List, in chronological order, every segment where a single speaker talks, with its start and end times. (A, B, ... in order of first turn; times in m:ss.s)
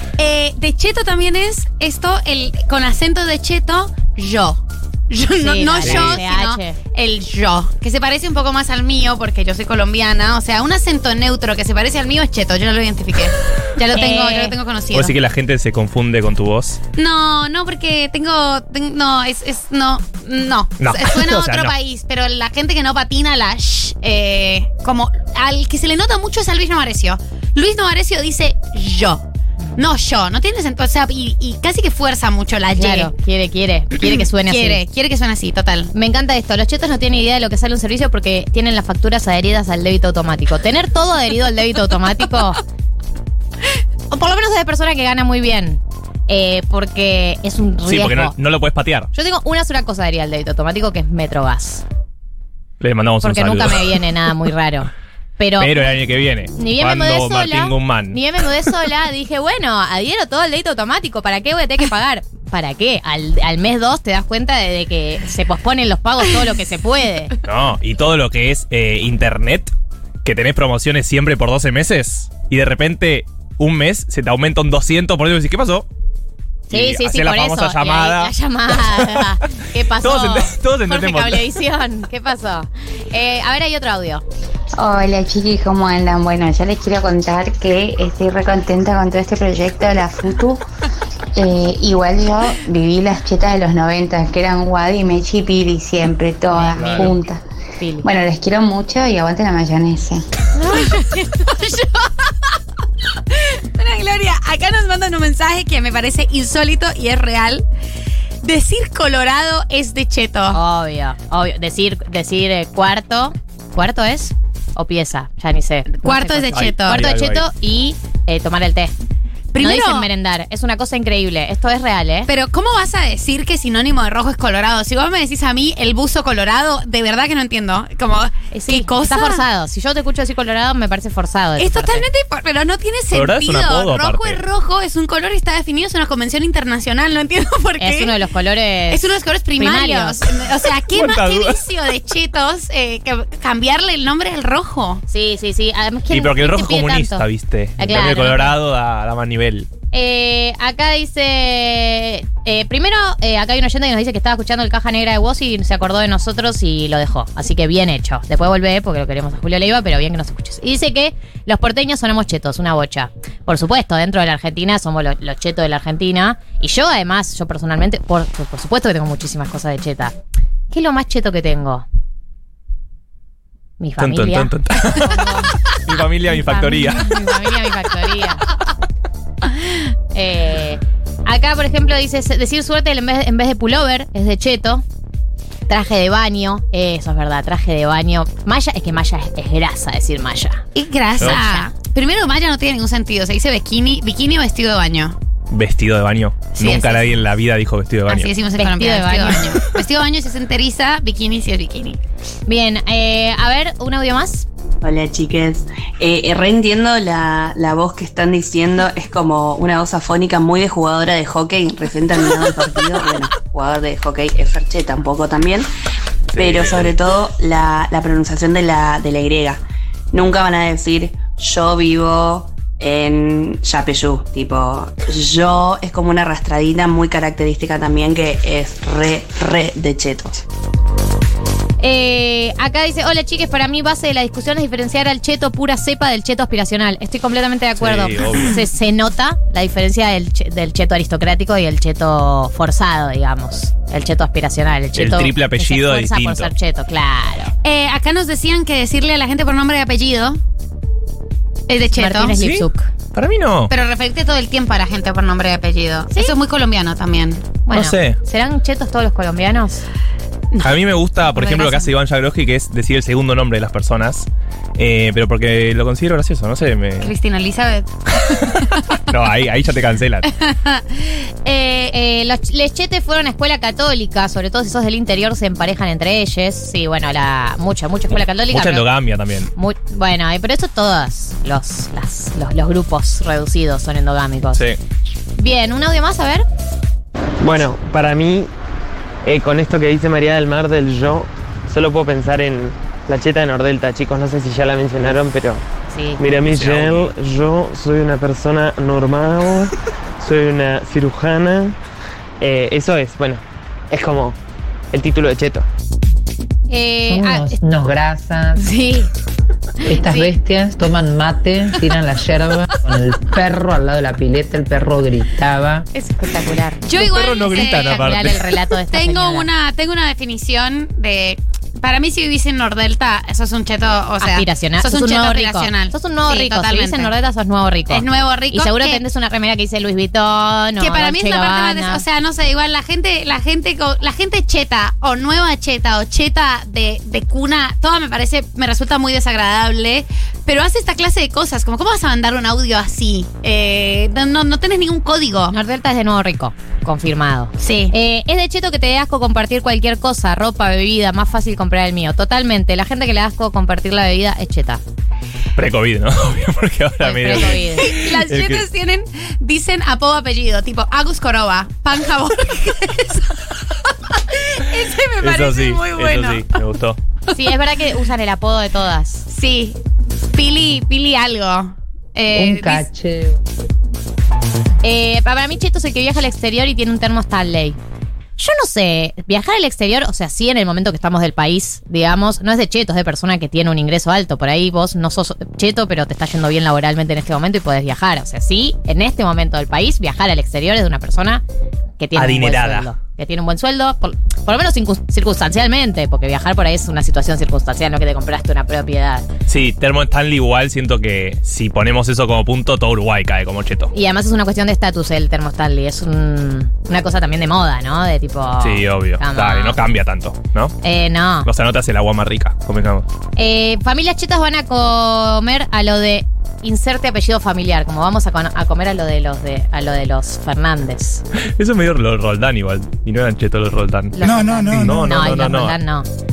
0:00.2-0:15.1 A
0:05.4-0:06.8 B
0:05.8-0:06.2 C
0:13.9-0:14.6 B
0:14.9-0:16.8 C
0:17.0-0:29.2 A
0:20.8-0:21.7 C
0:29.8-0:33.1 A
0:32.8-0:34.8 B
0:34.0-0:35.9 A
0:35.9-0:42.6 B
0:44.1-0:48.3 B
0:47.8-0:49.1 C
0:49.1-0:51.8 B
0:52.8-0:54.0 C
0:53.2-0:56.0 B
0:55.6-0:58.2 C
0:56.5-1:07.3 B
1:07.4-1:09.7 C
1:10.2-1:15.9 C
1:16.7-1:19.5 C
1:16.7-1:24.2 B
1:20.0-1:21.5 C
1:24.8-1:30.6 D
1:31.4-1:37.4 D
1:36.5-1:37.2 B
1:37.8-1:38.1 B
1:38.0-1:40.2 D
1:40.6-1:41.4 B
1:41.5-1:42.3 A
1:43.3-1:47.6 A
1:48.4-1:50.6 A
1:50.5-1:58.9 B
1:56.0-1:57.1 A
1:56.5-1:57.4 C
1:59.5-2:00.1 A
1:59.6-2:02.3 B
2:02.3-2:09.4 A
2:08.5-2:12.0 B
2:11.6-2:18.1 A
2:13.1-2:14.4 C
2:17.8-2:20.2 B
2:18.9-2:25.0 A
2:20.9-2:21.6 C
2:25.1-2:27.2 B
2:26.1-2:29.7 C
2:27.8-2:28.6 B
2:29.9-2:50.1 B
2:50.7-2:51.8 B
2:53.8-2:55.5 B
2:54.0-2:57.2 C
2:56.3-2:58.4 B
3:00.1-3:04.8 B
3:05.7-3:10.6 B
3:10.7-3:15.2 A
3:11.2-3:11.4 C
3:11.2-3:11.7 B
3:15.5-3:18.3 C
3:16.6-3:17.1 A
3:18.1-3:22.0 A
3:18.6-3:19.5 B
3:22.4-3:24.5 B
3:24.8-3:35.7 E
3:36.3-3:37.0 C
3:36.4-3:50.4 E
3:51.8-4:07.5 B
3:57.8-3:58.6 C
4:04.9-4:06.5 C
4:07.6-4:10.4 A
4:11.7-4:12.4 A
4:11.9-4:12.9 B
4:12.4-4:13.7 C
4:13.7-4:17.5 A
4:17.6-4:19.8 B
4:17.7-4:18.2 C
4:20.6-4:27.1 C
4:21.3-4:21.9 A
4:27.0-4:28.9 A
4:29.1-4:30.3 C
4:30.4-4:30.8 A
4:31.4-4:38.9 B
4:38.5-4:39.5 C
4:39.5-4:44.6 B
4:45.4-4:46.4 B
4:47.4-4:48.5 F
4:49.2-4:55.6 F
4:55.9-4:56.2 B
4:56.2-5:01.8 F
4:56.5-4:57.1 C
5:02.4-5:04.4 F
5:04.9-5:05.7 F
5:06.7-5:07.6 B
5:07.0-5:08.6 G
5:08.6-5:09.1 B
5:09.8-5:15.9 G
5:10.0-5:10.3 A
5:16.0-5:27.1 A
5:16.2-5:16.7 B
5:16.9-5:18.4 C
5:17.5-5:19.5 B
5:24.2-5:32.0 B
5:27.9-5:29.0 A
5:30.8-5:45.5 A
5:45.5-5:54.8 B
5:47.6-5:47.9 A
5:55.6-5:58.6 C
5:57.0-5:57.9 B
5:57.4-6:06.5 A
6:05.2-6:07.0 C
6:07.3-6:09.2 B
6:09.3-6:09.8 A
6:10.3-6:12.9 A
6:12.3-6:13.4 G
6:14.8-6:17.8 B
6:18.4-6:31.4 B
6:32.0-6:39.3 B
6:32.1-6:32.9 C
6:39.5-6:43.9 C
6:43.9-6:49.8 B
6:48.6-6:50.8 C
6:50.8-6:51.5 B
6:51.4-6:53.1 C
6:53.4-7:01.2 B
7:01.6-7:05.8 C
7:04.1-7:06.0 B